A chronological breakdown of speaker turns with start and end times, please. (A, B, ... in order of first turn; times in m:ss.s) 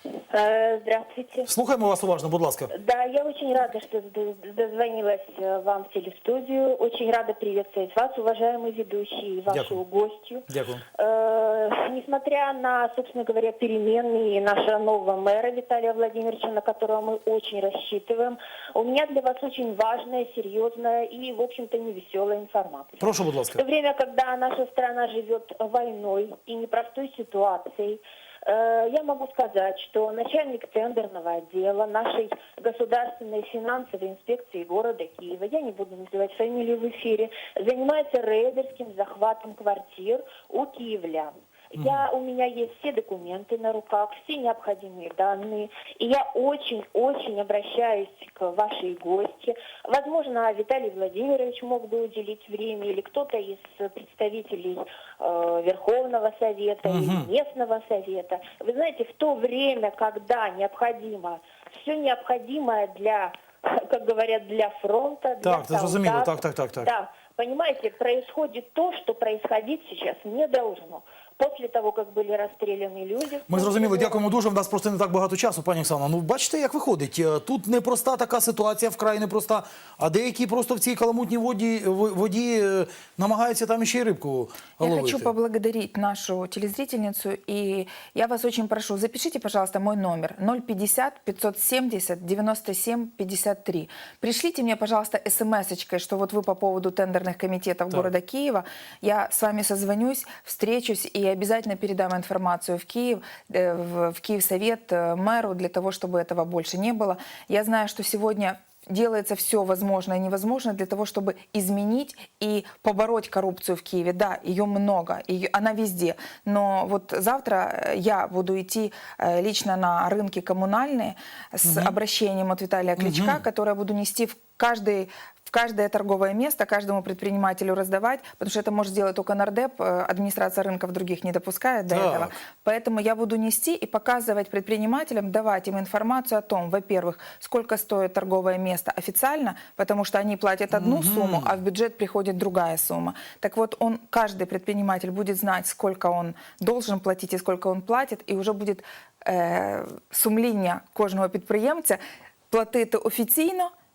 0:00.3-0:01.5 A
0:01.4-0:02.7 B
0:02.7-1:14.2 A
0:09.5-0:09.8 B
0:10.5-0:10.8 B
0:23.0-0:23.6 B
0:41.8-0:42.0 B
0:56.8-0:57.3 B
1:05.4-1:06.9 B
1:13.5-1:25.3 B
1:24.8-2:32.0 C
2:01.6-2:01.9 B
2:03.0-2:03.4 B
2:11.9-2:12.3 B
2:20.7-2:21.6 B
2:32.5-2:33.7 C